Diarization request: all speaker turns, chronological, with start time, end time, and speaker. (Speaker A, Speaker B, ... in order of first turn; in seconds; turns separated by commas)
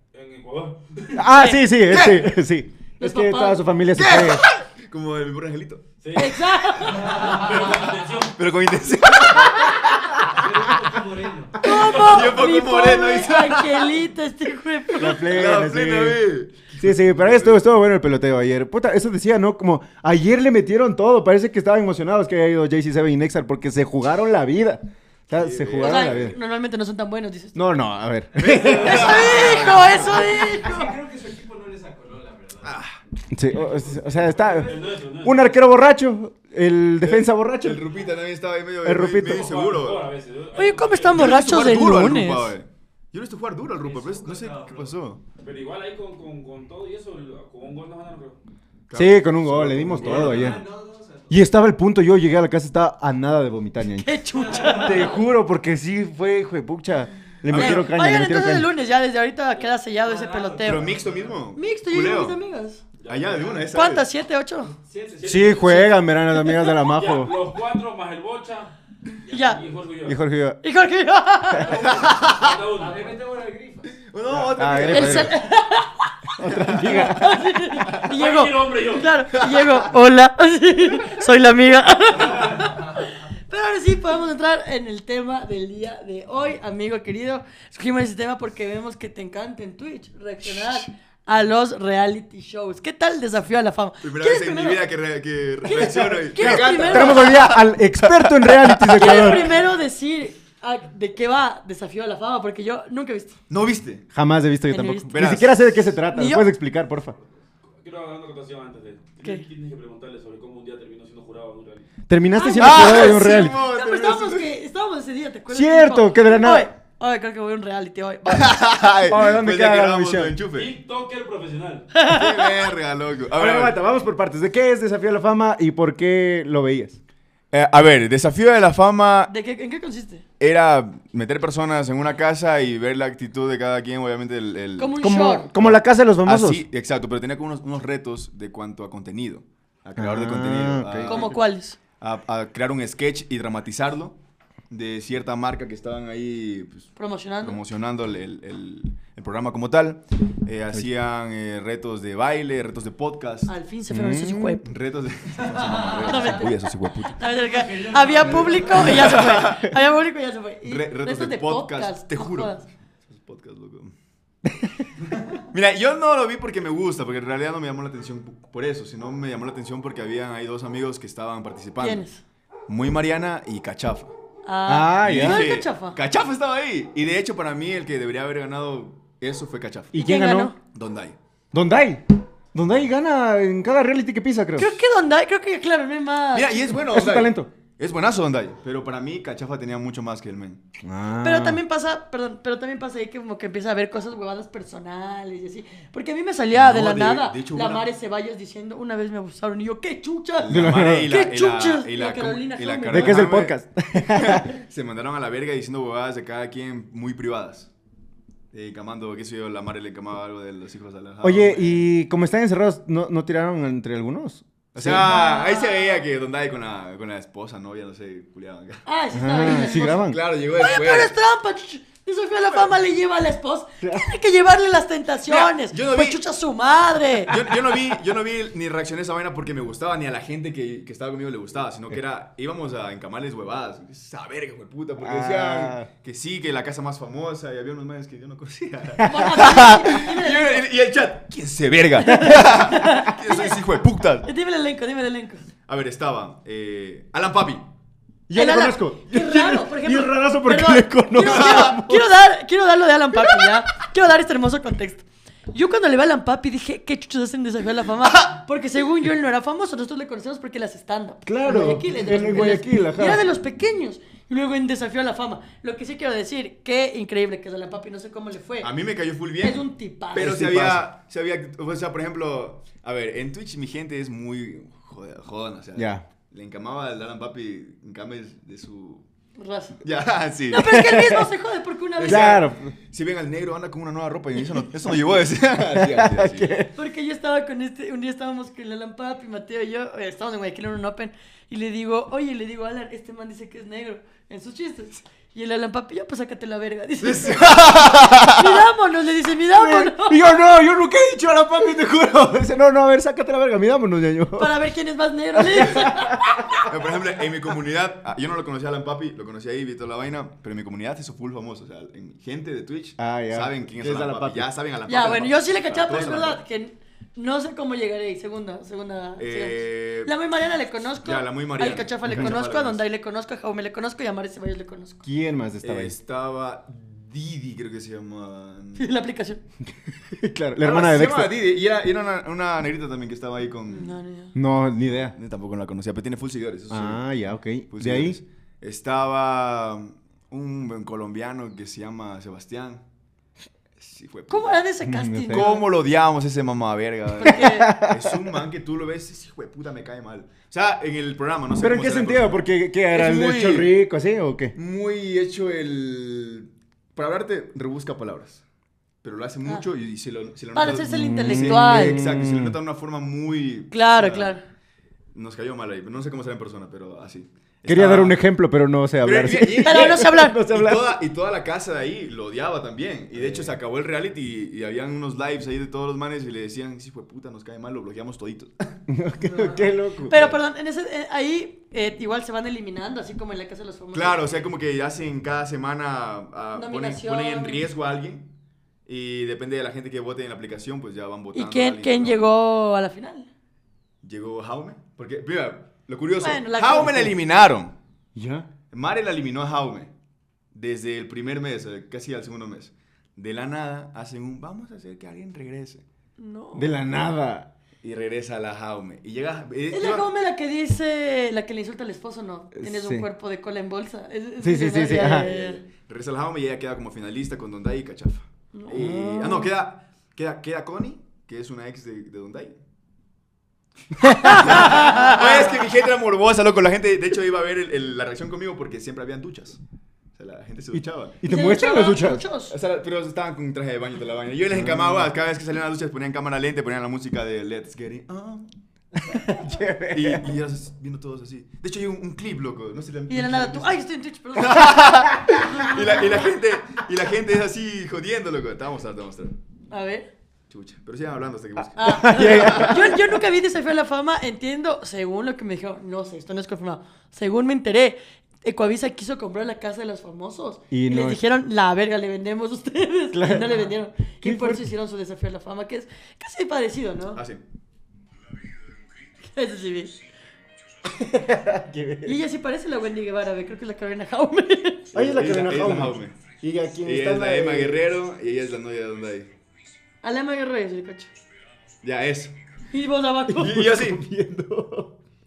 Speaker A: 0.1-1.2, Speaker B: 1.1-4.4, Speaker C: 1.3-1.6, Speaker D: 1.9-2.3, Speaker C: 3.0-3.6, Speaker D: 4.0-5.8, Speaker A: 6.0-8.4, Speaker C: 6.2-7.3, Speaker E: 7.0-7.6, Speaker D: 8.3-10.4, Speaker E: 10.2-11.7, Speaker C: 11.6-15.2, Speaker D: 11.7-14.0, Speaker B: 14.9-16.2, Speaker D: 15.1-17.6, Speaker B: 16.7-26.4, Speaker D: 25.3-26.4, Speaker C: 25.8-27.8, Speaker B: 27.6-29.4, Speaker D: 28.4-30.4, Speaker C: 28.6-31.0, Speaker E: 29.5-32.8, Speaker D: 32.6-33.0, Speaker B: 33.3-37.9, Speaker A: 33.5-35.6, Speaker E: 33.6-34.7, Speaker D: 37.0-40.0, Speaker B: 38.8-39.5, Speaker A: 39.2-41.5, Speaker C: 40.6-42.5, Speaker D: 41.1-45.2, Speaker E: 43.8-45.0, Speaker A: 45.4-48.4, Speaker D: 48.9-50.6, Speaker B: 48.9-50.6, Speaker E: 50.0-51.5, Speaker B: 51.3-58.7, Speaker C: 54.0-55.2, Speaker E: 54.4-55.2, Speaker D: 57.5-57.9, Speaker C: 57.5-60.9, Speaker E: 60.0-61.5, Speaker D: 60.6-62.4, Speaker C: 61.5-62.8, Speaker A: 63.0-63.7, Speaker D: 63.0-64.1, Speaker C: 63.7-64.7, Speaker E: 64.7-65.8, Speaker A: 65.2-65.8, Speaker B: 65.2-67.3, Speaker C: 65.7-66.7, Speaker A: 66.8-68.7, Speaker A: 69.3-70.2, Speaker C: 69.3-69.6, Speaker B: 70.0-70.6, Speaker C: 70.6-71.9, Speaker A: 71.5-73.1, Speaker D: 71.8-72.5, Speaker E: 72.6-74.5, Speaker D: 74.0-75.4, Speaker B: 74.5-75.4, Speaker C: 74.9-76.2, Speaker B: 76.4-77.4, Speaker D: 76.4-77.2, Speaker C: 76.7-94.8, Speaker A: 77.9-79.2, Speaker D: 79.3-79.7, Speaker D: 94.0-99.5, Speaker C: 95.6-97.5, Speaker B: 96.4-99.6, Speaker C: 98.9-103.4, Speaker D: 103.5-104.0, Speaker B: 104.1-107.2, Speaker C: 104.7-105.2, Speaker D: 105.1-105.9, Speaker C: 106.1-106.5, Speaker A: 107.8-111.9, Speaker B: 112.1-113.6, Speaker C: 112.3-118.7, Speaker D: 112.6-114.5, Speaker B: 115.5-116.7, Speaker D: 118.3-120.7, Speaker B: 119.0-120.3, Speaker A: 120.5-121.9, Speaker C: 121.9-122.7, Speaker D: 122.0-123.8, Speaker B: 123.3-127.0, Speaker D: 127.5-129.3, Speaker C: 129.3-130.2, Speaker D: 130.4-135.0, Speaker C: 134.8-135.5, Speaker B: 135.0-136.6, Speaker D: 135.5-141.4, Speaker B: 140.0-141.3, Speaker C: 141.1-141.8, Speaker D: 142.0-144.2, Speaker D: 144.7-153.5, Speaker C: 147.0-147.6, Speaker C: 153.5-154.7, Speaker B: 153.9-154.6, Speaker D: 154.6-157.3, Speaker E: 155.4-156.1, Speaker C: 156.0-156.5, Speaker C: 157.1-162.7, Speaker E: 157.4-159.0, Speaker D: 158.2-159.7, Speaker D: 160.7-163.9, Speaker D: 165.4-172.0, Speaker C: 171.8-172.2, Speaker D: 172.7-174.1, Speaker C: 174.4-176.0, Speaker B: 174.7-175.5, Speaker D: 175.0-180.0, Speaker B: 179.9-180.5, Speaker C: 179.9-180.6, Speaker D: 180.7-181.2, Speaker B: 181.5-184.8, Speaker C: 184.6-186.7, Speaker D: 186.3-190.6, Speaker B: 186.9-187.5, Speaker B: 190.8-191.6, Speaker C: 191.2-203.3, Speaker D: 196.5-197.9, Speaker D: 200.4-207.7, Speaker B: 200.5-201.1, Speaker B: 202.9-204.5, Speaker D: 208.5-211.9, Speaker B: 211.2-215.1, Speaker D: 214.7-218.8, Speaker C: 214.9-216.0, Speaker C: 218.9-227.3, Speaker B: 219.1-220.2, Speaker D: 219.4-221.1, Speaker B: 223.8-224.1, Speaker D: 225.3-226.2, Speaker D: 227.3-244.3, Speaker B: 235.0-235.9, Speaker C: 239.0-240.7, Speaker C: 242.0-243.6, Speaker C: 244.2-245.5, Speaker D: 245.7-247.7, Speaker B: 248.3-252.1, Speaker C: 248.3-268.7, Speaker D: 251.2-251.8, Speaker B: 261.2-263.2, Speaker D: 268.6-279.0, Speaker C: 269.4-270.4, Speaker B: 270.1-270.9, Speaker B: 275.8-276.1, Speaker C: 279.4-279.8, Speaker D: 279.8-280.9, Speaker C: 280.5-282.4, Speaker B: 280.6-281.3, Speaker D: 282.0-286.6, Speaker B: 282.0-282.7, Speaker B: 285.7-286.7, Speaker C: 286.7-300.2, Speaker D: 297.0-298.6, Speaker B: 299.5-304.6, Speaker C: 304.4-306.6, Speaker B: 305.4-306.6, Speaker D: 306.6-316.4, Speaker B: 313.0-314.5, Speaker C: 314.9-325.0, Speaker D: 319.2-320.1, Speaker D: 321.0-322.9, Speaker B: 322.1-322.3, Speaker B: 325.1-325.9, Speaker D: 325.6-328.9, Speaker C: 328.8-329.4, Speaker B: 329.9-331.4, Speaker D: 330.6-334.0, Speaker C: 333.7-334.3, Speaker B: 334.4-335.2, Speaker D: 335.1-337.0, Speaker B: 336.7-338.2, Speaker D: 337.7-342.8, Speaker D: 343.8-344.6, Speaker C: 344.3-345.7, Speaker B: 344.8-345.5, Speaker D: 345.3-353.7, Speaker C: 347.2-347.7, Speaker B: 347.3-348.3, Speaker B: 351.6-354.5, Speaker D: 354.6-358.4, Speaker D: 359.0-364.4, Speaker C: 360.5-362.1, Speaker B: 360.9-362.6, Speaker C: 363.7-364.4, Speaker D: 365.1-368.2, Speaker B: 367.7-371.0, Speaker D: 369.0-378.8, Speaker C: 369.6-370.4, Speaker B: 373.1-373.5, Speaker B: 378.9-380.4, Speaker C: 380.1-384.3, Speaker D: 383.9-388.3, Speaker C: 386.6-387.7, Speaker D: 388.9-392.2, Speaker C: 391.3-393.3, Speaker D: 394.0-397.8, Speaker C: 396.2-397.2, Speaker B: 398.1-398.5, Speaker D: 398.7-399.9, Speaker D: 400.5-405.8, Speaker C: 406.2-406.7, Speaker B: 406.5-407.5, Speaker D: 407.8-410.1, Speaker C: 409.7-415.6, Speaker B: 412.6-413.1, Speaker B: 414.4-415.3, Speaker D: 414.9-422.6, Speaker C: 418.5-419.4, Speaker B: 418.7-419.5, Speaker B: 424.0-425.0, Speaker D: 424.1-429.6, Speaker C: 424.6-425.2, Speaker D: 430.1-431.2, Speaker B: 430.7-432.2, Speaker C: 431.2-432.5, Speaker D: 432.5-438.5, Speaker B: 434.5-435.1, Speaker B: 439.1-440.3, Speaker D: 439.2-443.8, Speaker C: 443.1-446.3, Speaker D: 444.3-449.4, Speaker C: 449.7-450.1, Speaker D: 450.5-453.0, Speaker C: 451.8-467.2, Speaker B: 451.8-453.1, Speaker B: 460.7-461.2, Speaker B: 463.1-463.7, Speaker B: 464.2-464.7, Speaker D: 467.1-467.4, Speaker C: 469.2-469.9, Speaker B: 470.9-472.2, Speaker C: 472.0-474.9, Speaker D: 474.9-476.2, Speaker B: 474.9-477.9, Speaker D: 476.8-479.3, Speaker C: 480.0-481.1, Speaker D: 481.8-482.3, Speaker C: 482.7-483.6, Speaker D: 483.3-484.0, Speaker B: 483.4-484.9